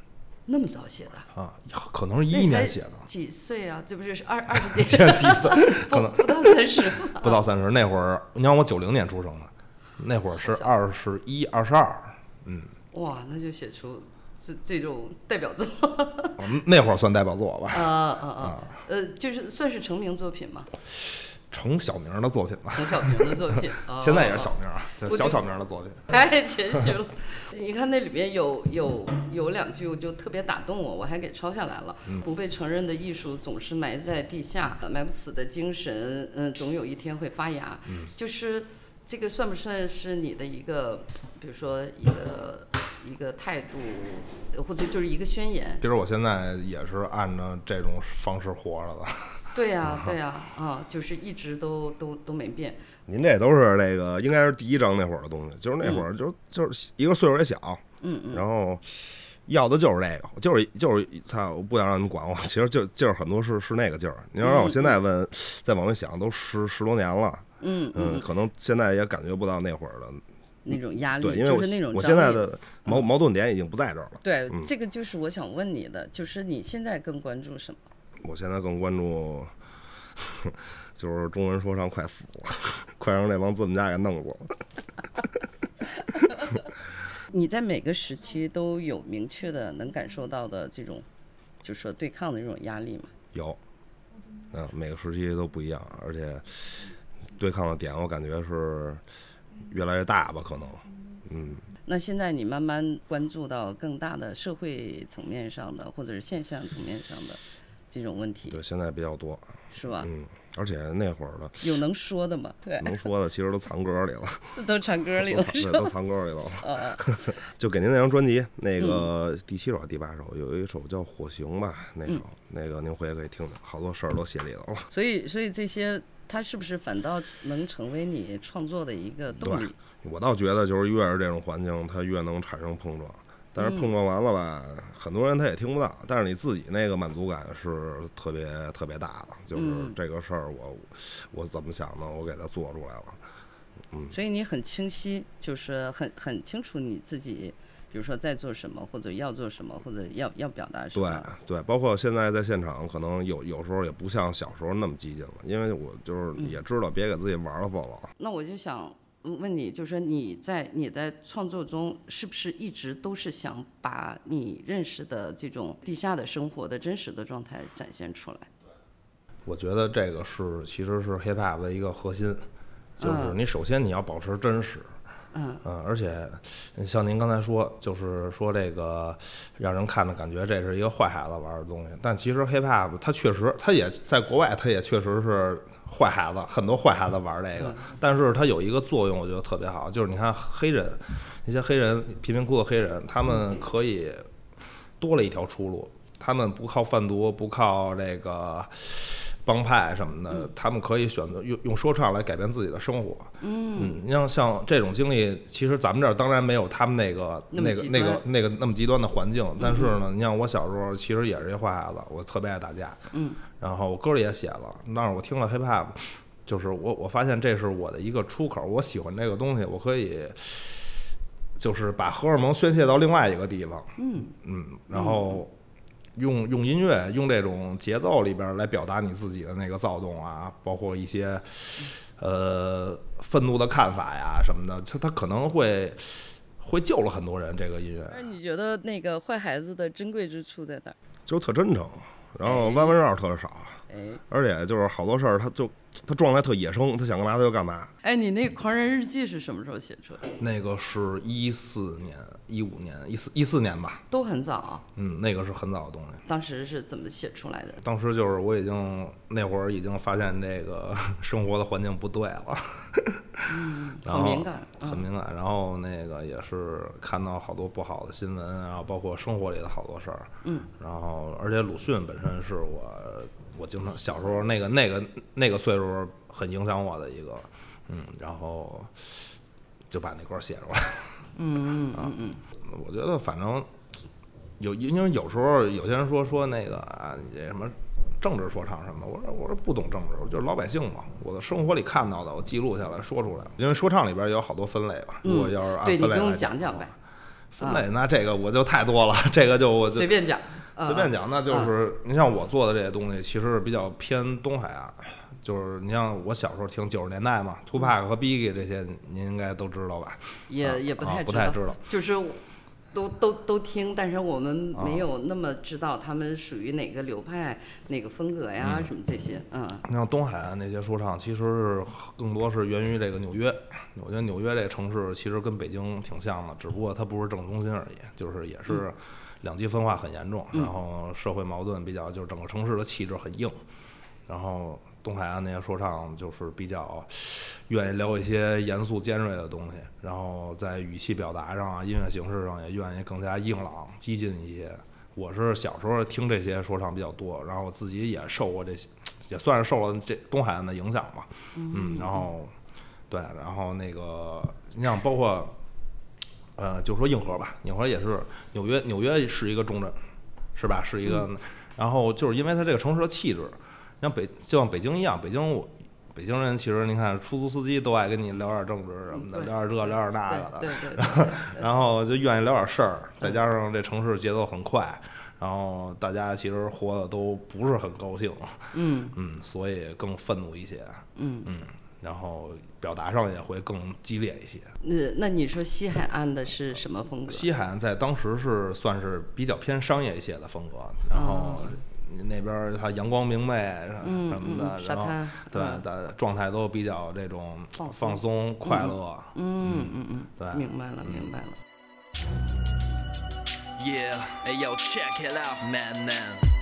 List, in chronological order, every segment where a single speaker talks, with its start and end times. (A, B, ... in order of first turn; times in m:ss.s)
0:00.5-0:01.3 A
0:01.3-0:03.1 B
0:02.3-0:07.4 A
0:04.5-0:12.7 B
0:10.4-0:10.7 A
0:12.9-0:16.4 A
0:16.4-0:18.7 B
0:17.7-0:20.7 A
0:21.5-0:26.1 B
0:22.8-0:24.5 A
0:25.1-0:25.4 A
0:26.1-0:45.8 A
0:45.8-0:49.4 B
0:49.5-0:52.8 A
0:53.1-0:58.8 C
0:58.0-0:58.4 A
0:59.5-1:10.2 C
1:04.4-1:05.0 A
1:07.6-1:08.3 A
1:10.6-1:13.1 A
1:11.2-1:14.7 C
1:14.2-1:17.8 A
1:18.2-1:19.5 C
1:20.4-1:24.5 C
1:27.3-1:31.0 A
1:31.6-1:33.1 A
1:34.5-1:36.8 C
1:37.4-1:39.0 C
1:39.6-1:41.6 C
1:41.9-1:47.4 A
1:47.9-1:48.6 A
1:48.5-1:51.6 C
1:49.7-1:50.1 A
1:51.6-1:53.0 A
1:52.8-1:54.6 C
1:54.6-1:56.0 A
1:55.2-2:04.9 C
1:56.6-1:57.0 A
1:58.8-1:59.1 A
2:04.9-2:09.8 A
2:09.4-2:23.2 C
2:13.6-2:13.9 A
2:19.5-2:20.0 A
2:24.1-2:31.3 A
2:31.0-2:38.1 C
2:38.2-2:48.5 A
2:49.4-2:52.4 B
2:53.0-2:54.9 B
2:53.0-2:53.4 A
2:55.3-2:55.6 A
2:55.6-3:14.3 B
3:15.0-3:33.0 B
3:23.4-3:24.0 A
3:27.5-3:28.2 A
3:29.6-3:30.0 A
3:33.1-3:33.4 A
3:33.6-3:40.8 B
3:41.6-3:45.5 B
3:44.0-3:44.3 A
3:44.9-3:45.4 A
3:46.2-3:58.2 B
3:58.1-4:01.0 A
4:01.3-4:03.8 C
4:02.4-4:03.0 A
4:03.9-4:04.2 A
4:04.3-4:07.9 C
4:08.0-4:10.2 A
4:10.4-4:14.0 B
4:14.1-4:14.9 A
4:15.0-4:16.2 B
4:16.3-4:17.8 A
4:17.8-4:23.4 B
4:23.5-4:25.1 A
4:24.0-4:39.0 B
4:30.4-4:30.7 A
4:39.9-4:41.2 B
4:41.4-4:42.4 A
4:41.9-4:43.7 B
4:44.6-4:56.9 B
4:55.2-4:56.9 A
4:57.5-5:00.1 B
4:59.9-5:01.7 A
5:00.8-5:11.8 B
5:10.5-5:12.4 A
5:12.9-5:19.8 A
5:14.8-5:15.0 B
5:18.6-5:18.9 B
5:19.8-5:33.6 B
5:34.3-5:52.5 B
5:51.6-5:52.3 A
5:53.1-5:55.6 B
5:56.6-6:00.0 B
6:00.6-6:24.7 B
6:09.1-6:11.7 A
6:18.7-6:19.2 A
6:21.2-6:21.5 A
6:24.8-6:27.5 A
6:27.3-6:41.3 B
6:31.1-6:31.8 A
6:34.0-6:35.8 A
6:37.8-6:41.6 A
6:43.8-6:46.5 D